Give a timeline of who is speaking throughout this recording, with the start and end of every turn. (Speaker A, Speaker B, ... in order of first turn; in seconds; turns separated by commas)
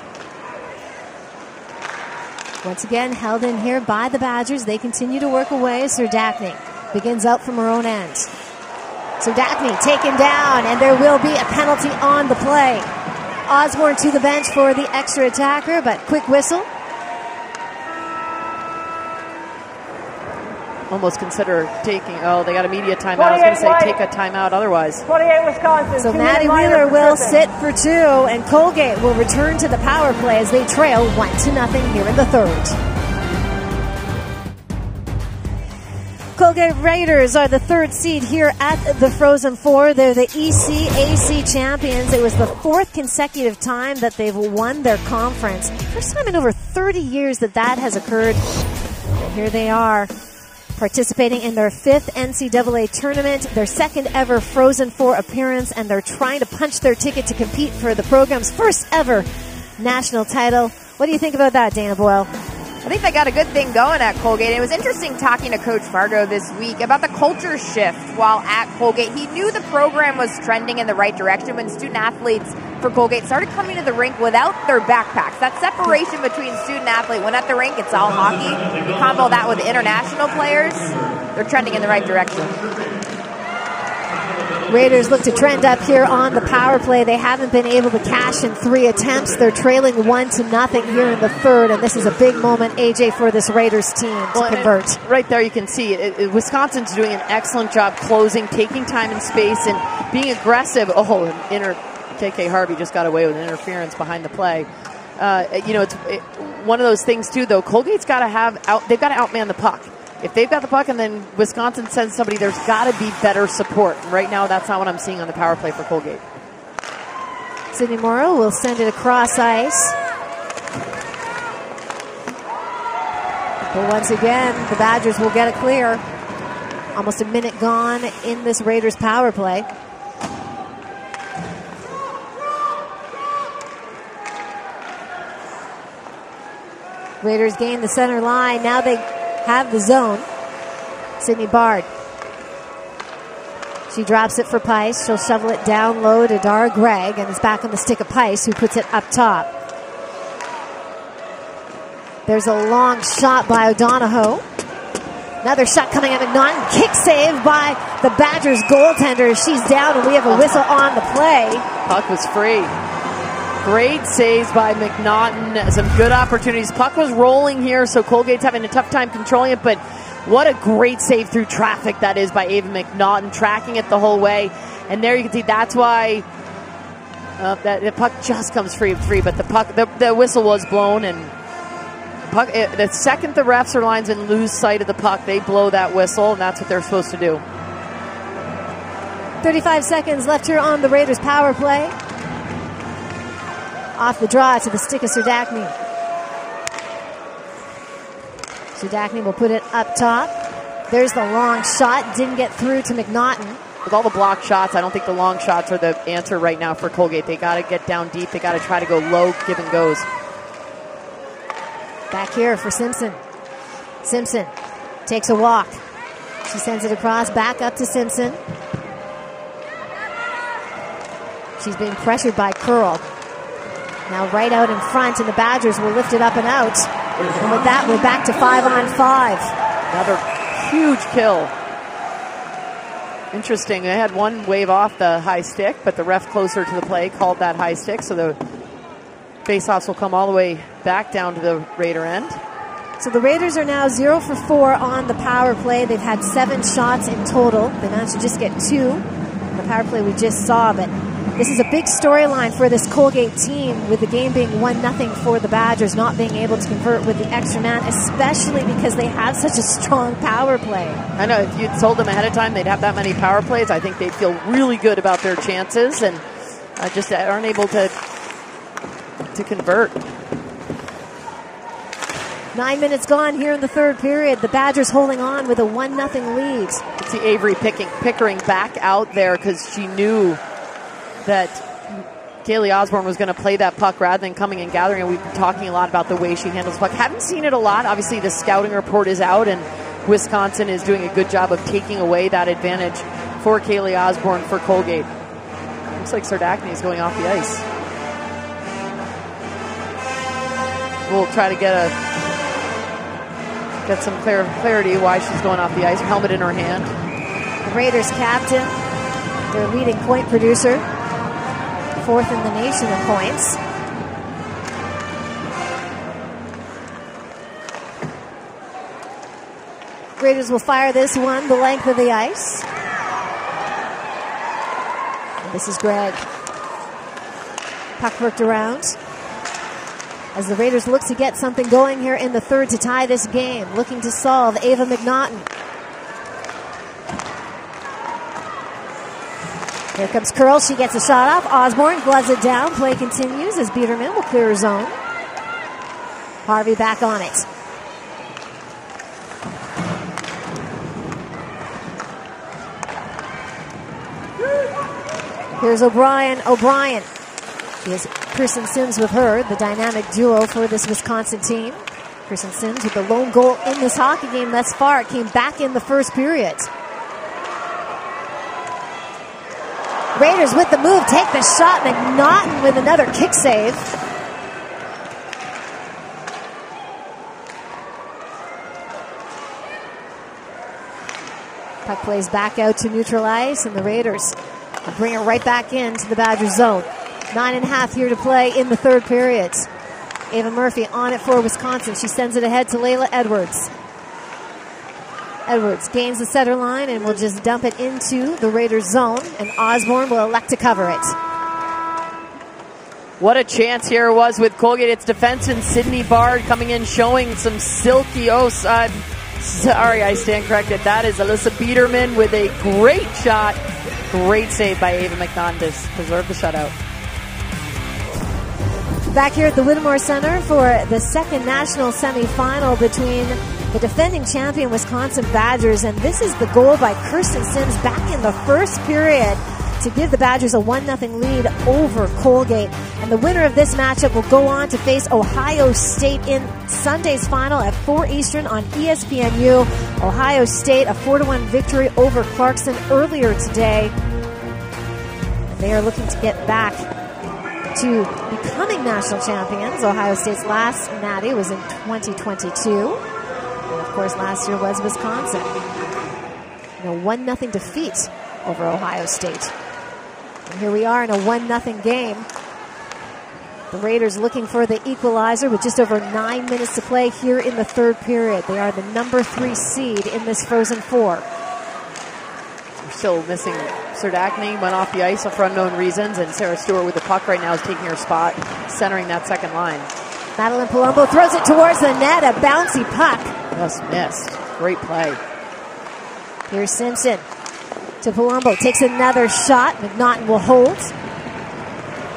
Speaker A: 2.6-8.3, Speaker A: 9.2-12.9, Speaker A: 13.5-16.7, Speaker B: 20.9-25.1, Speaker C: 23.1-24.0, Speaker C: 25.0-27.4, Speaker A: 26.0-32.8, Speaker A: 36.4-48.5, Speaker A: 49.2-50.1, Speaker A: 50.8-62.3, Speaker D: 62.8-82.6, Speaker A: 84.7-95.0, Speaker B: 94.3-116.2, Speaker A: 117.7-120.0, Speaker A: 123.6-126.0, Speaker A: 126.9-129.7, Speaker A: 137.2-140.2, Speaker A: 141.2-141.9, Speaker A: 143.9-149.5, Speaker A: 152.3-154.4, Speaker A: 155.4-161.6, Speaker B: 160.3-160.6, Speaker B: 161.8-162.7, Speaker B: 163.6-176.2, Speaker B: 177.4-181.3, Speaker B: 182.3-187.4, Speaker A: 189.4-191.9, Speaker A: 194.0-195.7, Speaker A: 198.7-200.3, Speaker A: 200.9-203.6, Speaker B: 203.8-210.1, Speaker A: 212.1-213.2, Speaker A: 214.0-214.5, Speaker A: 215.1-215.8, Speaker A: 216.4-218.4, Speaker A: 221.6-223.0, Speaker A: 224.1-226.9, Speaker A: 227.4-229.5, Speaker B: 229.9-231.5, Speaker B: 233.3-238.4, Speaker B: 239.5-242.4, Speaker A: 243.0-261.0, Speaker B: 261.2-266.2, Speaker B: 266.8-267.9, Speaker B: 269.3-270.0, Speaker A: 272.5-276.8, Speaker B: 277.0-280.4, Speaker B: 281.2-295.1, Speaker B: 295.9-297.6, Speaker B: 301.1-301.9, Speaker B: 303.8-306.9, Speaker A: 307.6-308.7, Speaker A: 309.5-310.8, Speaker A: 312.0-313.6, Speaker A: 320.2-322.6, Speaker A: 325.4-326.2, Speaker A: 328.0-329.0, Speaker A: 330.3-335.5, Speaker A: 339.9-344.9, Speaker A: 346.4-347.5, Speaker A: 355.6-357.1, Speaker A: 357.8-366.7, Speaker A: 370.1-373.9, Speaker A: 381.8-389.7, Speaker A: 390.3-393.7, Speaker A: 395.5-401.1, Speaker B: 403.2-413.6, Speaker B: 414.1-416.7, Speaker A: 419.1-443.9, Speaker A: 445.5-446.9, Speaker A: 447.7-453.0, Speaker A: 453.7-455.5, Speaker A: 456.8-459.5, Speaker A: 460.4-462.3, Speaker A: 463.7-471.2, Speaker B: 472.8-479.9, Speaker A: 480.4-483.3, Speaker B: 483.5-485.2, Speaker A: 486.5-487.2, Speaker A: 488.0-490.9